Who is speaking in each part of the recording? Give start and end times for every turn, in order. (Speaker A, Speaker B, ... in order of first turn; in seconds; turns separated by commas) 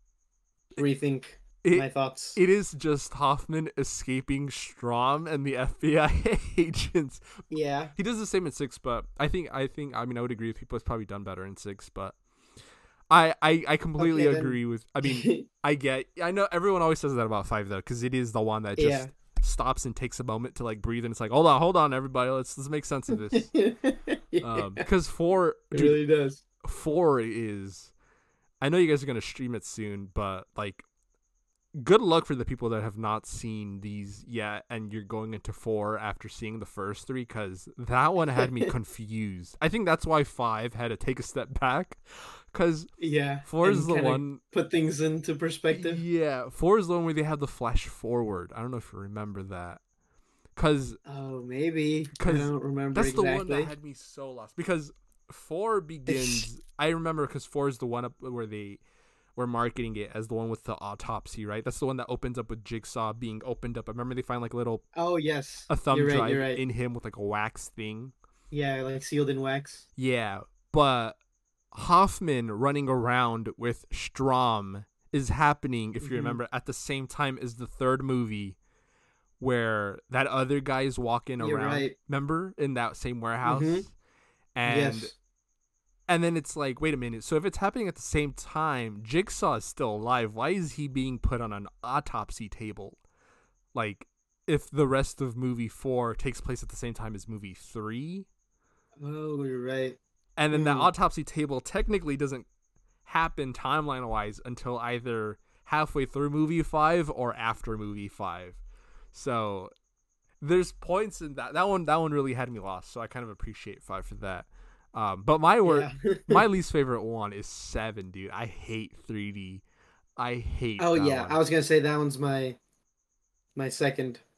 Speaker A: 0.8-2.4, Speaker B: 1.6-7.3, Speaker A: 7.5-7.9, Speaker B: 8.0-12.2, Speaker B: 13.1-23.5, Speaker A: 14.0-15.4, Speaker A: 18.8-19.1, Speaker A: 23.3-24.9, Speaker B: 24.4-26.0, Speaker A: 25.7-26.4, Speaker B: 26.6-27.9, Speaker B: 28.6-30.8, Speaker B: 31.7-42.9, Speaker A: 38.4-38.7, Speaker A: 43.0-46.0, Speaker B: 43.4-44.4, Speaker B: 45.7-49.8, Speaker B: 50.5-51.0, Speaker A: 51.0-53.7, Speaker B: 52.1-58.8, Speaker A: 56.1-56.5, Speaker B: 59.4-64.8, Speaker A: 65.0-66.6, Speaker B: 65.7-68.1, Speaker A: 68.5-69.9, Speaker B: 70.0-71.2, Speaker B: 71.7-78.6, Speaker A: 76.0-76.4, Speaker B: 79.4-83.9, Speaker A: 81.4-82.0, Speaker A: 83.4-83.9, Speaker B: 84.5-85.1, Speaker A: 84.6-85.1, Speaker B: 86.1-93.0, Speaker B: 93.7-98.3, Speaker A: 99.0-100.0, Speaker B: 100.4-102.5, Speaker A: 100.5-100.9, Speaker B: 103.0-108.6, Speaker B: 109.1-109.7, Speaker B: 110.4-119.6, Speaker A: 115.6-116.4, Speaker B: 120.2-121.4, Speaker A: 120.8-122.6, Speaker A: 123.5-124.2